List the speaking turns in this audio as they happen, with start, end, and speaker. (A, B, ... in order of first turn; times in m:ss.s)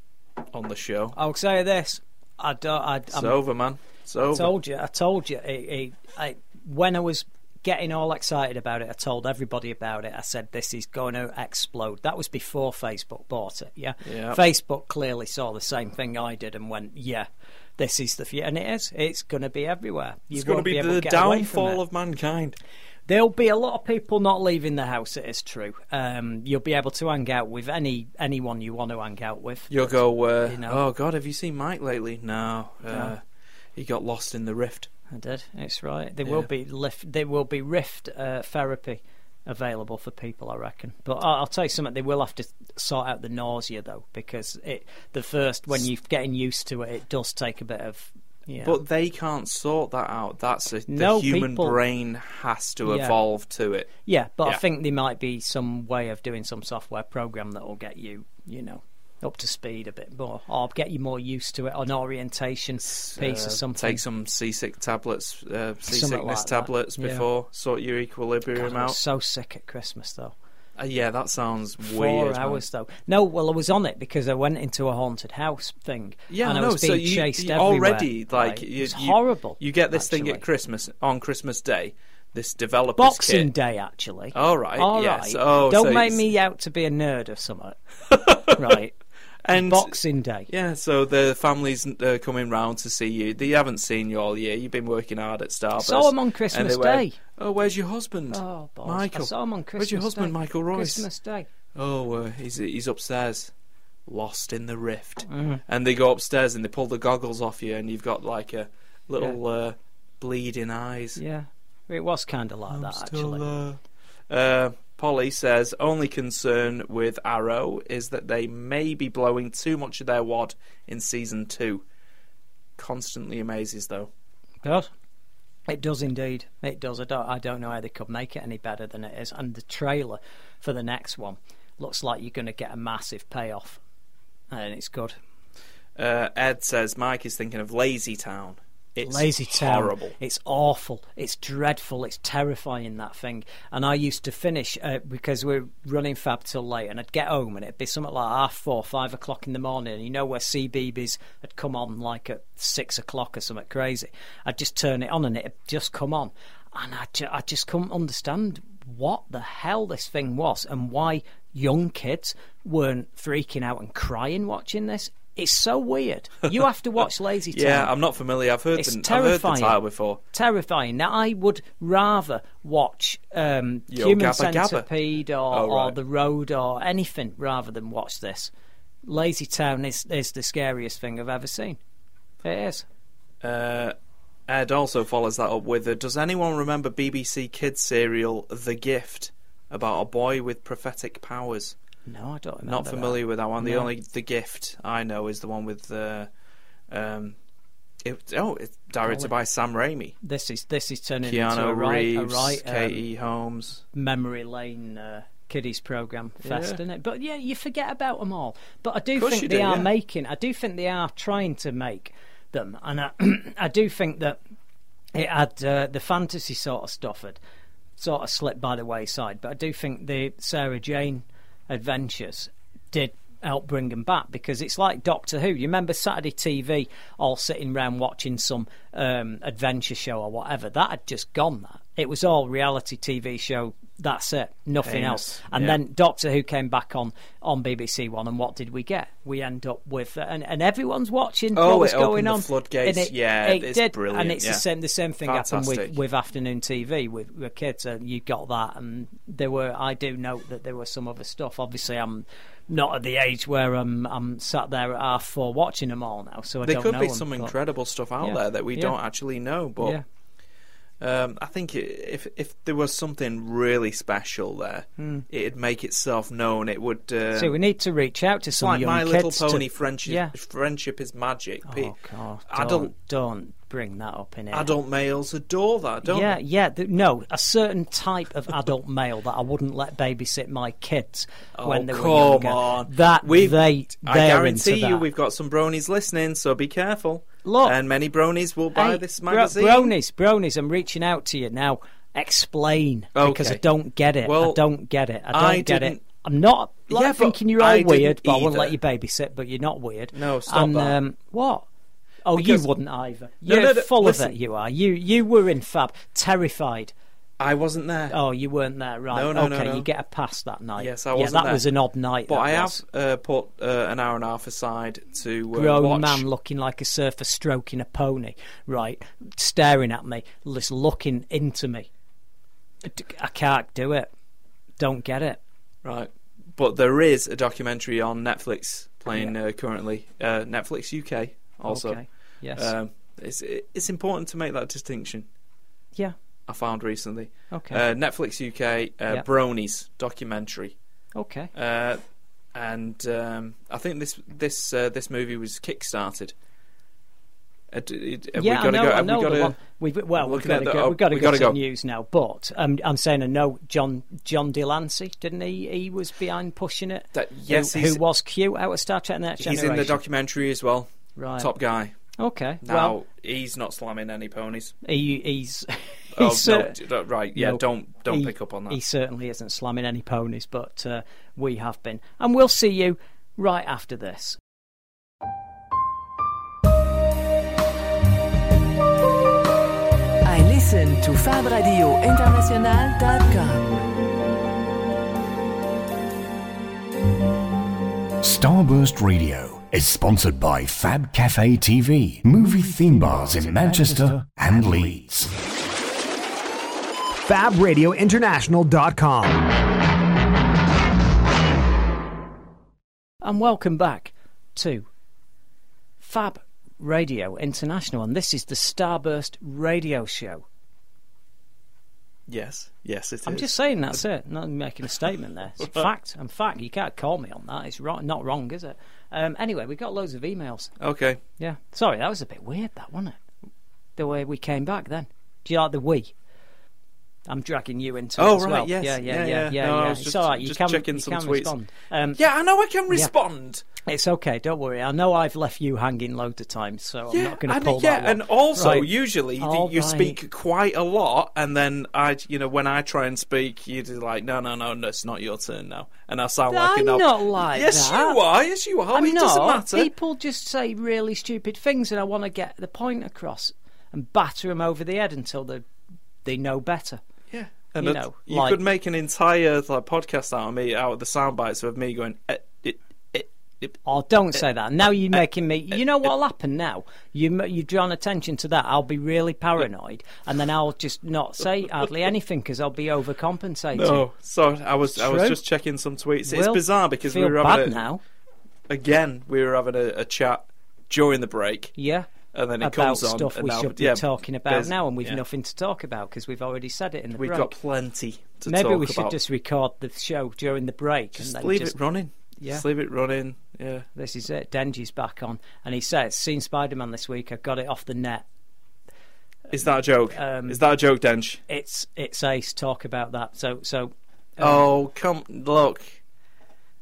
0:00.5-0:01.2 A
0:01.1-0:03.4 B
0:03.1-0:04.5 A
0:04.3-0:21.8 B
0:14.0-0:14.4 A
0:20.3-0:22.6 A
0:23.1-0:30.8 B
0:29.7-0:33.2 A
0:33.8-0:34.9 A
0:35.1-0:48.8 B
0:48.6-0:53.9 A
0:50.9-0:51.8 B
0:52.8-0:53.2 B
0:54.1-1:04.0 B
1:02.9-1:09.0 A
1:05.9-1:07.3 B
1:08.5-1:10.4 B
1:10.8-1:12.6 A
1:11.8-1:20.4 B
1:16.3-1:23.5 A
1:23.0-1:27.8 B
1:24.3-1:26.3 A
1:28.1-1:28.8 A
1:28.5-1:29.0 B
1:29.4-1:30.0 A
1:29.5-1:30.5 B
1:30.5-1:41.1 A
1:35.8-1:37.2 B
1:38.3-1:41.5 B
1:41.7-1:43.5 A
1:44.1-1:51.2 A
1:45.3-1:45.6 B
1:51.2-1:53.4 B
1:52.7-2:01.8 A
2:02.8-2:04.1 A
2:04.6-2:04.9 B
2:05.7-2:13.8 B
2:14.5-2:15.2 B
2:16.0-2:20.1 A
2:19.0-2:47.9 B
2:47.5-2:50.2 A
2:48.7-2:49.8 B
2:50.3-2:58.5 B
2:53.9-2:54.9 A
2:55.5-2:56.0 A
2:59.1-3:01.8 B
3:02.4-3:02.9 B
3:03.4-3:03.9 A
3:04.5-3:11.8 A
3:12.1-3:13.9 B
3:12.7-3:16.3 A
3:16.9-3:17.4 A
3:18.0-3:20.2 A
3:19.0-3:19.3 B
3:20.2-3:23.0 B
3:21.2-3:23.8 A
3:23.9-3:34.4 B
3:26.4-3:26.8 A
3:29.2-3:29.9 A
3:35.1-3:37.4 B
3:38.0-4:17.5 B
3:54.8-3:55.8 A
4:01.5-4:04.6 A
4:05.2-4:06.0 A
4:16.6-4:20.0 A
4:18.2-4:19.0 B
4:21.0-4:27.5 A
4:25.0-4:25.2 B
4:27.4-4:30.3 B
4:28.6-4:31.9 A
4:31.7-4:34.7 B
4:32.5-4:32.9 A
4:34.5-4:36.4 A
4:36.0-4:45.0 B
4:41.6-4:49.9 A
4:47.4-4:47.8 B
4:48.7-5:01.7 B
4:53.1-4:53.6 A
4:54.2-4:54.6 A
4:55.3-4:56.0 A
4:56.9-4:58.8 A
5:00.1-5:01.0 A
5:02.2-5:06.9 B
5:02.4-5:02.6 A
5:03.4-5:04.4 A
5:07.4-5:08.2 A
5:08.1-5:12.8 B
5:09.1-5:09.9 A
5:10.8-5:11.7 A
5:12.3-5:16.2 A
5:15.5-5:21.9 B
5:22.8-5:24.1 B
5:24.8-5:25.4 B
5:25.8-5:32.0 A
5:31.7-5:32.7 B
5:32.6-5:35.3 A
5:36.5-5:40.7 A
5:37.5-5:37.8 B
5:41.1-5:41.5 B
5:41.5-5:42.0 A
5:42.6-5:46.3 A
5:47.7-5:49.6 A
5:48.4-6:00.0 B
5:50.2-5:51.6 A
5:57.1-5:58.0 A
5:59.4-6:01.9 A
6:01.2-6:01.5 B
6:02.2-6:03.0 B
6:02.6-6:04.8 A
6:04.8-6:06.8 B
6:06.2-6:08.8 A
6:07.3-6:14.4 B
6:20.2-6:23.9 C
6:28.2-6:35.3 D
6:37.1-6:39.5 E
6:43.2-6:44.9 B
6:46.0-6:50.4 B
6:52.3-6:54.0 A
6:53.3-7:00.7 B
7:00.8-7:01.2 A
7:01.4-7:03.2 B
7:04.0-7:06.1 B
7:07.3-7:12.2 B
7:08.2-7:11.5 A
7:12.2-7:13.7 A
7:13.8-7:20.2 B
7:17.1-7:29.9 A
7:26.5-7:28.2 B
7:28.9-7:35.6 B
7:36.2-7:37.0 B
7:37.3-7:43.8 A
7:37.8-7:38.6 B
7:43.8-7:54.0 B
7:53.7-7:57.8 A
7:54.9-7:55.4 B
7:56.2-7:58.0 B
7:58.7-8:01.7 A
8:01.8-8:02.1 B
8:02.3-8:05.2 A
8:02.6-8:07.5 B
8:07.2-8:09.2 A
8:08.4-8:11.7 B
8:11.2-8:13.9 A
8:12.4-8:12.6 B
8:14.0-8:18.2 B
8:19.5-8:21.4 A
8:20.1-8:20.6 B
8:21.5-8:24.7 B
8:24.4-8:26.0 A